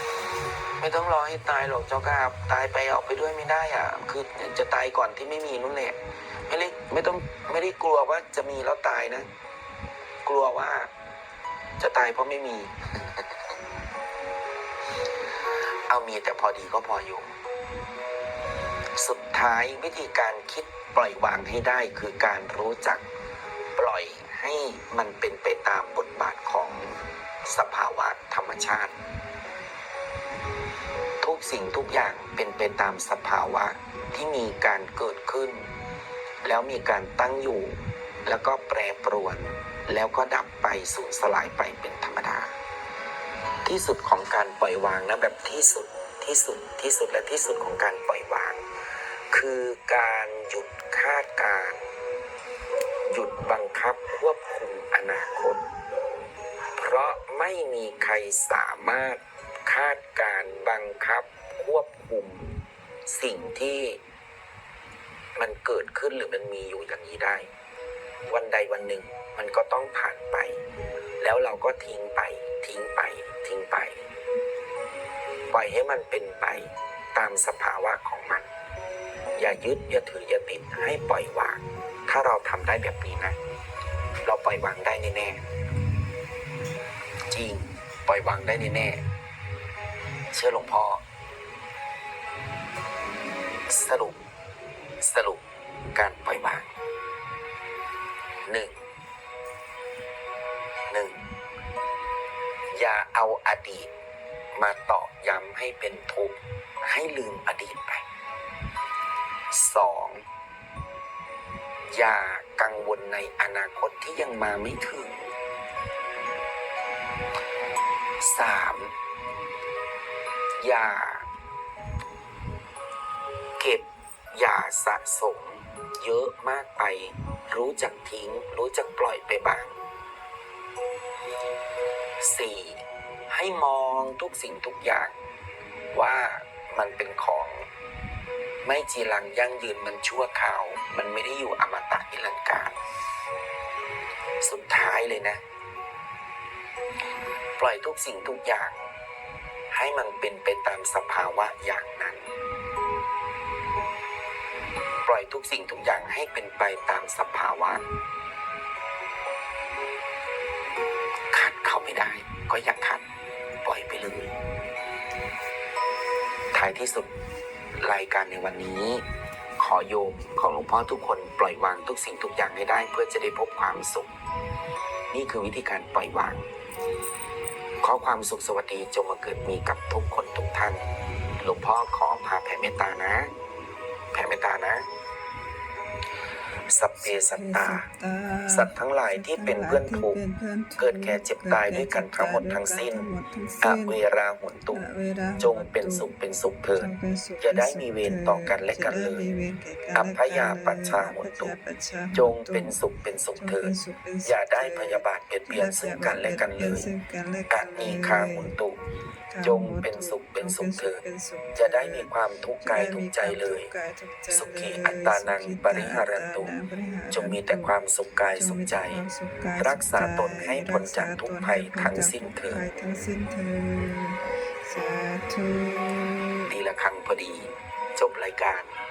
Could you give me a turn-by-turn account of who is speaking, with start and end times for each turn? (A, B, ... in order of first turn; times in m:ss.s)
0:00.8-0:09.3 A
0:10.2-0:10.9 A
0:11.8-0:13.2 A
0:15.9-0:17.3 A
0:19.0-0:23.0 A
0:23.8-0:26.9 A
0:27.4-0:28.9 A
0:31.2-0:35.6 A
0:36.4-0:42.5 A
0:43.6-0:48.6 A
0:49.3-0:51.8 A
0:53.1-0:55.6 A
0:56.8-1:02.5 A
1:03.1-1:04.0 A
1:05.4-1:07.5 A
1:08.3-1:10.6 A
1:11.2-1:14.0 A
1:15.5-1:18.5 A
1:19.4-1:23.4 A
1:24.2-1:25.4 A
1:27.3-1:29.0 A
1:30.3-1:31.0 A
1:33.7-1:34.2 A
1:35.0-1:35.4 A
1:35.9-1:36.7 A
1:38.4-1:38.7 A
1:40.9-1:41.2 A
1:42.7-1:43.9 A
1:44.5-1:48.0 A
1:49.5-1:50.2 A
1:51.9-1:55.3 A
1:58.2-1:58.9 A
2:00.6-2:01.3 A
2:03.6-2:09.8 A
2:12.2-2:15.1 A
2:15.9-2:17.6 A
2:18.6-2:22.8 A
2:24.4-2:25.4 A
2:27.6-2:28.8 A
2:29.7-2:32.3 A
2:35.0-2:37.8 A
2:41.3-2:43.0 A
2:43.6-2:44.3 A
2:46.5-2:47.1 A
2:47.8-2:49.0 A
2:49.6-2:54.1 A
2:55.1-2:56.4 A
2:57.8-3:00.8 A
3:01.4-3:03.3 A
3:04.1-3:04.9 A
3:06.7-3:07.9 A
3:07.0-3:16.1 B
3:08.5-3:10.2 A
3:10.8-3:13.1 A
3:13.6-3:14.8 A
3:15.4-3:19.2 A
3:16.8-3:22.8 B
3:19.9-3:21.5 A
3:22.1-3:23.7 A
3:23.4-3:28.5 B
3:24.2-3:26.9 A
3:27.5-3:28.8 A
3:29.3-3:37.7 B
3:29.4-3:31.0 A
3:31.6-3:33.7 A
3:34.3-3:36.5 A
3:37.1-3:39.0 A
3:38.3-3:46.5 B
3:39.6-3:42.6 A
3:46.5-3:48.7 A